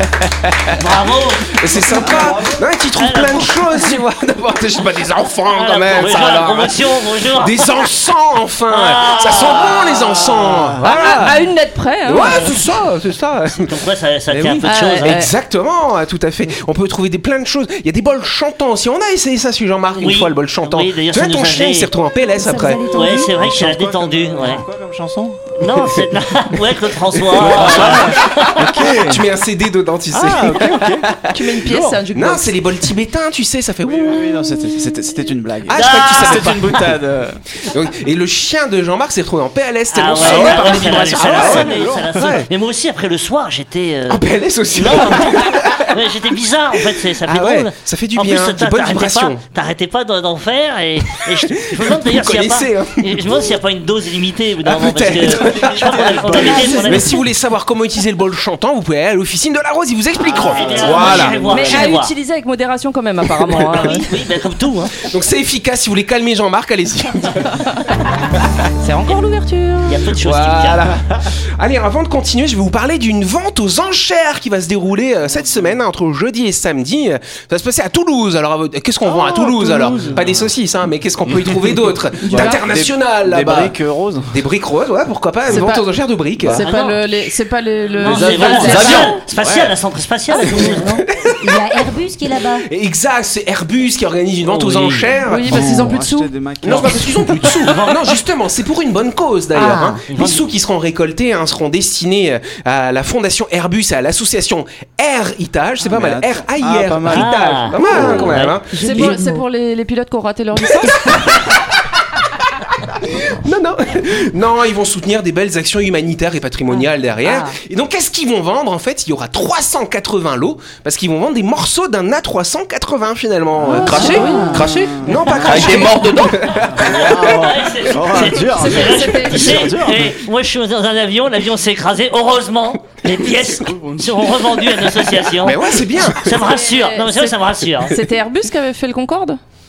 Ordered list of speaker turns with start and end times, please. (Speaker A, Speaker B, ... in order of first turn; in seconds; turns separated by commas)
Speaker A: 0.4-0.8, Speaker B: 0.8-1.6, Speaker A: 1.5-11.4, Speaker C: 1.9-2.7, Speaker B: 3.0-3.9, Speaker B: 5.5-7.9, Speaker B: 8.7-10.6, Speaker D: 10.9-12.5, Speaker A: 12.1-13.7, Speaker B: 12.2-12.5, Speaker B: 13.6-15.3, Speaker A: 14.3-22.9, Speaker D: 14.6-15.3, Speaker B: 20.0-21.9, Speaker E: 22.3-23.4, Speaker B: 22.9-24.6, Speaker C: 23.4-25.9, Speaker B: 25.6-28.6, Speaker A: 27.3-31.5, Speaker C: 27.4-29.3, Speaker C: 30.1-32.0, Speaker D: 31.3-32.6, Speaker A: 32.1-34.4, Speaker C: 33.8-37.4, Speaker A: 35.7-37.0, Speaker B: 35.7-36.5, Speaker A: 37.6-42.5, Speaker B: 39.9-57.2, Speaker C: 40.2-42.4, Speaker A: 44.1-46.0, Speaker A: 46.8-49.4, Speaker A: 51.4-53.5, Speaker A: 54.6-61.9, Speaker C: 55.0-57.1, Speaker E: 56.4-57.2, Speaker C: 60.2-61.8, Speaker B: 60.3-62.1, Speaker D: 61.5-64.1, Speaker B: 63.5-65.1, Speaker A: 65.0-68.5, Speaker D: 68.8-70.0, Speaker B: 69.9-70.9, Speaker A: 70.2-83.8, Speaker C: 79.0-80.5, Speaker C: 81.3-84.4, Speaker D: 82.2-82.6, Speaker A: 84.3-86.7, Speaker D: 85.5-85.8, Speaker C: 86.4-87.0, Speaker D: 86.5-89.2, Speaker B: 88.0-91.0, Speaker C: 88.0-89.2, Speaker A: 89.4-89.7, Speaker A: 90.4-91.6, Speaker E: 91.4-92.7, Speaker A: 92.7-95.9, Speaker B: 94.4-95.2, Speaker D: 95.2-96.3, Speaker C: 95.4-97.3, Speaker A: 96.6-109.2, Speaker B: 96.7-98.2, Speaker B: 99.5-100.5, Speaker C: 105.8-108.3, Speaker B: 107.1-108.6, Speaker E: 107.8-109.4, Speaker D: 108.8-111.2, Speaker A: 110.6-127.3, Speaker D: 117.2-117.5, Speaker C: 123.6-130.2, Speaker D: 123.7-124.9, Speaker E: 123.9-124.8, Speaker B: 126.8-138.0, Speaker D: 128.5-129.7, Speaker C: 133.7-134.2, Speaker A: 135.4-136.4, Speaker D: 136.4-139.4